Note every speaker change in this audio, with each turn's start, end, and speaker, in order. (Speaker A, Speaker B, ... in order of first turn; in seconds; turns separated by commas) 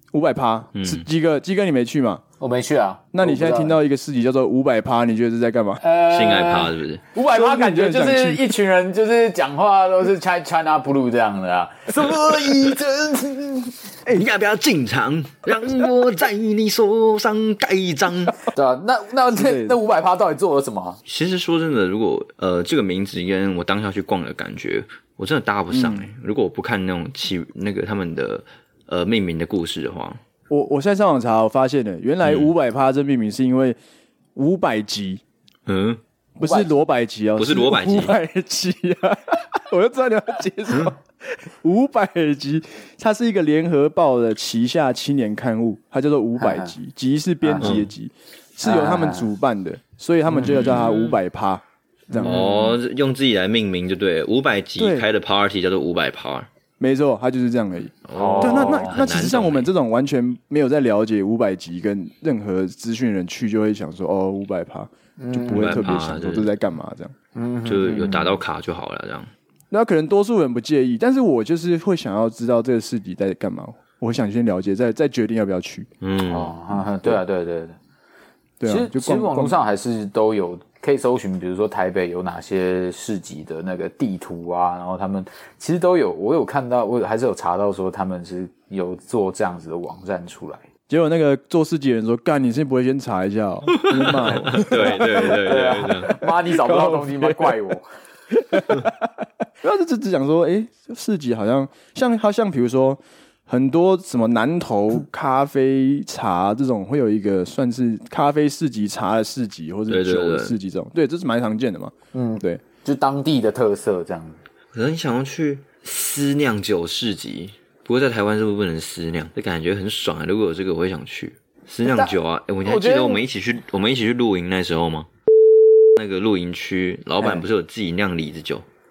Speaker A: 0.1-2.2, Speaker B: 0.8-1.1, Speaker C: 2.4-3.8, Speaker A: 3.1-5.8, Speaker C: 5.8-13.8, Speaker B: 6.1-7.0, Speaker A: 7.3-8.5, Speaker B: 14.1-18.4, Speaker C: 18.5-21.0, Speaker A: 19.3-19.8, Speaker B: 21.1-30.2, Speaker A: 25.7-26.1, Speaker A: 30.5-33.8, Speaker B: 32.2-32.5, Speaker A: 34.4-35.2, Speaker B: 35.7-36.0, Speaker A: 36.4-52.4, Speaker C: 36.4-36.7, Speaker B: 37.4-38.1, Speaker C: 46.4-46.7, Speaker C: 47.4-47.8, Speaker B: 47.6-47.9, Speaker C: 48.6-49.3, Speaker C: 50.3-50.8, Speaker B: 50.4-51.2, Speaker C: 52.1-52.6, Speaker B: 52.2-56.5, Speaker A: 54.8-55.1, Speaker A: 56.8-67.1, Speaker B: 58.0-59.7, Speaker C: 58.1-59.0, Speaker C: 65.2-65.8, Speaker B: 65.5-66.5, Speaker C: 67.3-68.4, Speaker B: 67.7-69.3, Speaker A: 69.7-75.9, Speaker B: 76.0-76.5, Speaker C: 76.2-77.8, Speaker A: 78.6-79.6, Speaker C: 78.7-90.6, Speaker A: 90.9-95.3, Speaker B: 93.9-96.2, Speaker C: 94.5-97.8, Speaker A: 96.2-97.5, Speaker A: 98.3-99.1, Speaker A: 99.6-112.6, Speaker B: 109.9-110.6, Speaker C: 112.1-114.4, Speaker B: 114.7-125.1, Speaker C: 121.8-123.2, Speaker B: 126.0-128.7